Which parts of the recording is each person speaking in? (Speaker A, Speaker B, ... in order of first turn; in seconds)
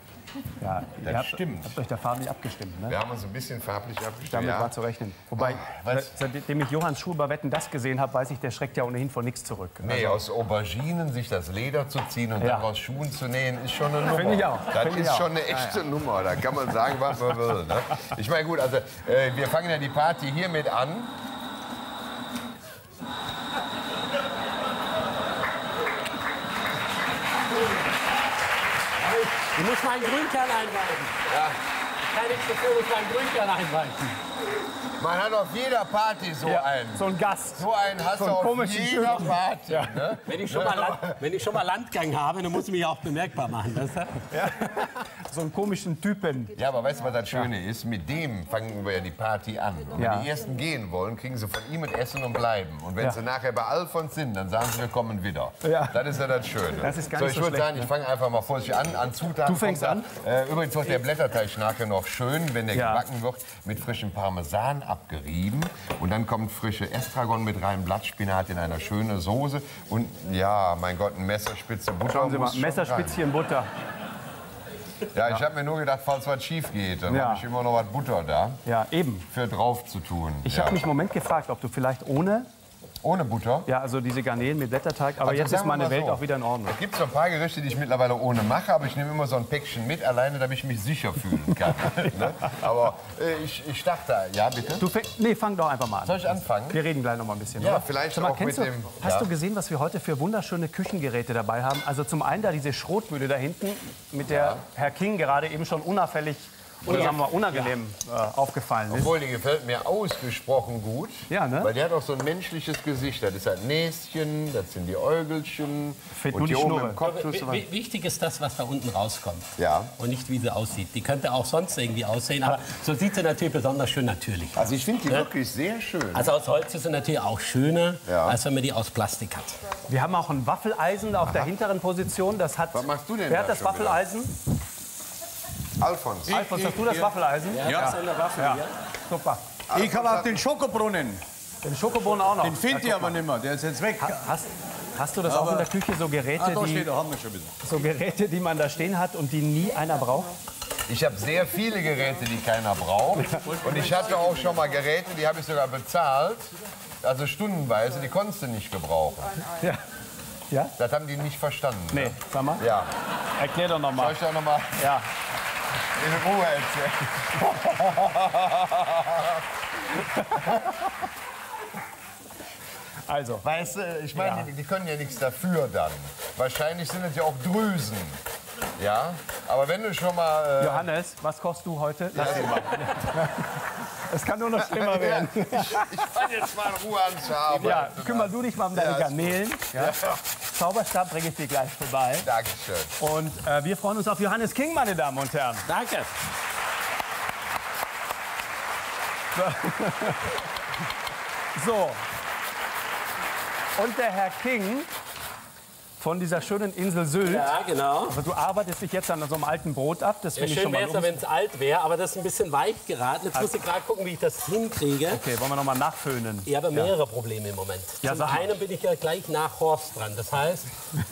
Speaker A: 0.6-3.0, 4.3-10.2, 12.4-12.7, 14.1-15.8, 36.4-40.0, 44.3-46.5, 50.0-50.3, 55.6-56.0, 56.8-57.9, 59.5-60.1, 62.7-63.0, 72.1-73.7, 77.1-77.4, 78.6-79.2, 80.4-82.5, 83.7-86.8, 91.8-92.3, 94.8-109.1, 111.3-111.7, 116.2-117.0, 129.9-134.4, 136.3-139.4, 141.6-143.2, 144.0-146.9, 147.6-150.3, 161.9-162.6, 163.4-164.2, 164.8-165.1, 167.4-168.1, 170.2-170.5, 173.1-173.4, 174.2-174.5, 180.6-185.9, 187.6-192.3, 193.0-195.7, 199.3-200.3, 201.6-202.0, 203.8-204.9, 206.0-207.5, 208.1-211.2, 215.1-216.9, 218.0-218.5
Speaker B: 1.0-1.8, 2.9-4.8, 5.3-6.1, 9.8-21.1, 31.3-31.6, 35.0-41.2, 46.5-73.2, 75.1-78.6, 79.3-80.8, 83.0-83.7, 85.2-94.9, 96.0-96.8, 97.6-99.3, 104.3-104.6, 108.9-117.7, 119.6-119.9, 124.5-126.3, 128.1-128.4, 131.2-131.5, 132.7-134.0, 135.8-136.4, 139.7-140.4, 150.9-159.4, 160.8-162.9, 163.9-164.9, 165.9-169.4, 173.4-178.2, 178.8-180.9, 182.1-183.0, 184.6-190.2, 192.2-192.9
Speaker C: 29.0-31.2, 32.0-34.1, 40.3-44.3, 117.0-125.3, 126.1-129.6, 137.5-138.7, 195.7-196.1, 207.2-208.2, 210.3-215.2, 216.4-220.7
Speaker D: 136.3-138.0, 139.7-141.2, 142.4-144.2, 145.2-145.7, 146.3-147.5, 153.4-154.5